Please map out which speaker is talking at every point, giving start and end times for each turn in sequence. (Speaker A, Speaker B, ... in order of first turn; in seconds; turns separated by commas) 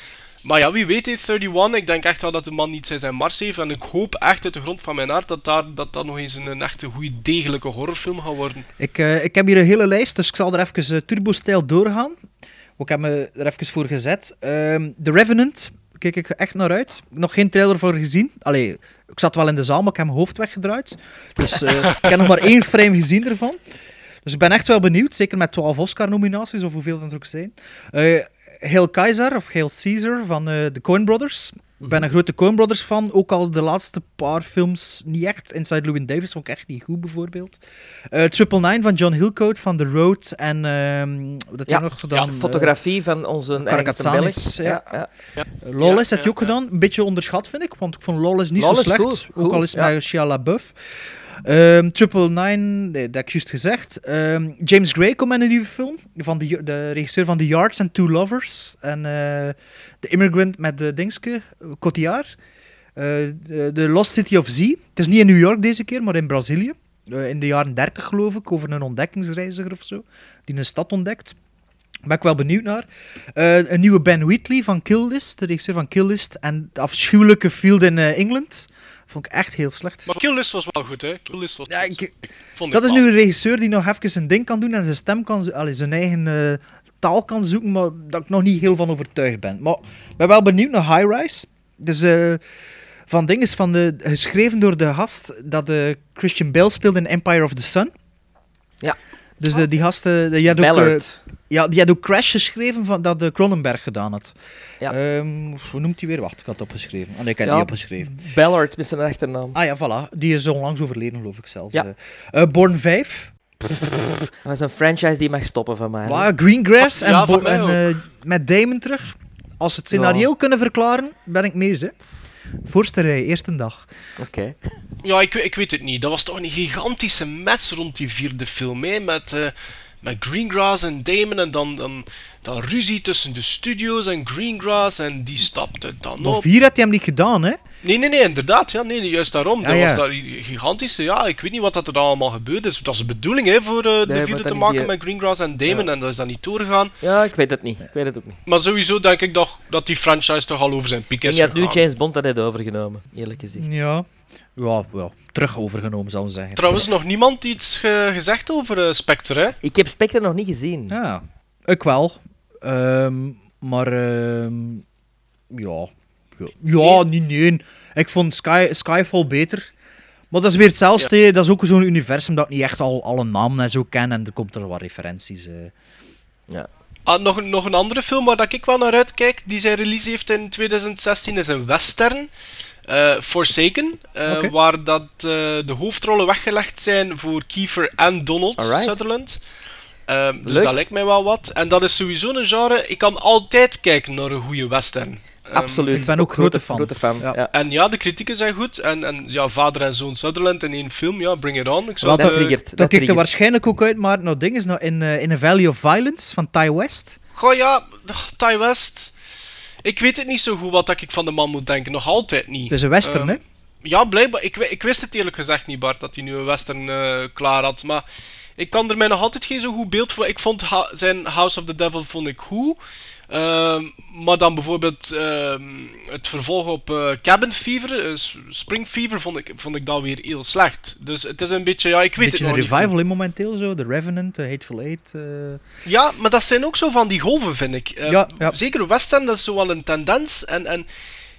Speaker A: 0.4-8.7, Speaker B: 8.8-12.2, Speaker B: 12.8-23.6, Speaker B: 24.2-42.7, Speaker C: 41.7-45.1, Speaker B: 43.5-45.0, Speaker A: 45.4-46.5, Speaker B: 45.6-62.3, Speaker C: 48.6-49.9, Speaker B: 63.0-71.3, Speaker B: 72.0-80.1, Speaker A: 80.1-83.1, Speaker B: 81.7-82.1, Speaker B: 82.7-92.4, Speaker B: 93.1-97.9, Speaker B: 99.4-104.3, Speaker C: 100.5-101.2, Speaker B: 104.9-108.2, Speaker C: 107.4-109.6, Speaker B: 109.5-113.3, Speaker C: 114.4-116.3, Speaker B: 116.0-121.9, Speaker A: 116.8-117.8, Speaker C: 119.9-120.3, Speaker B: 122.6-123.9, Speaker C: 124.2-124.6, Speaker A: 125.0-136.5, Speaker B: 136.2-137.6, Speaker A: 137.8-146.9, Speaker B: 139.6-140.0, Speaker C: 144.1-144.9, Speaker C: 147.0-148.4, Speaker A: 148.4-151.8, Speaker C: 151.2-153.7, Speaker B: 153.6-156.7, Speaker A: 156.6-159.6, Speaker C: 159.6-161.0, Speaker B: 160.9-164.8, Speaker B: 165.5-169.7, Speaker B: 170.3-175.7, Speaker A: 177.1-182.3, Speaker A: 182.9-189.4, Speaker B: 184.2-184.5, Speaker C: 188.6-189.0, Speaker A: 190.1-195.9, Speaker C: 190.4-190.8, Speaker C: 195.5-197.5, Speaker B: 195.9-197.3, Speaker A: 197.5-202.6, Speaker B: 202.0-207.2, Speaker C: 202.1-203.2, Speaker A: 207.3-209.1, Speaker A: 209.8-218.0, Speaker B: 212.7-213.4, Speaker A: 218.6-222.8, Speaker A: 223.3-232.9, Speaker B: 232.2-235.6, Speaker A: 235.8-240.8, Speaker B: 238.1-238.6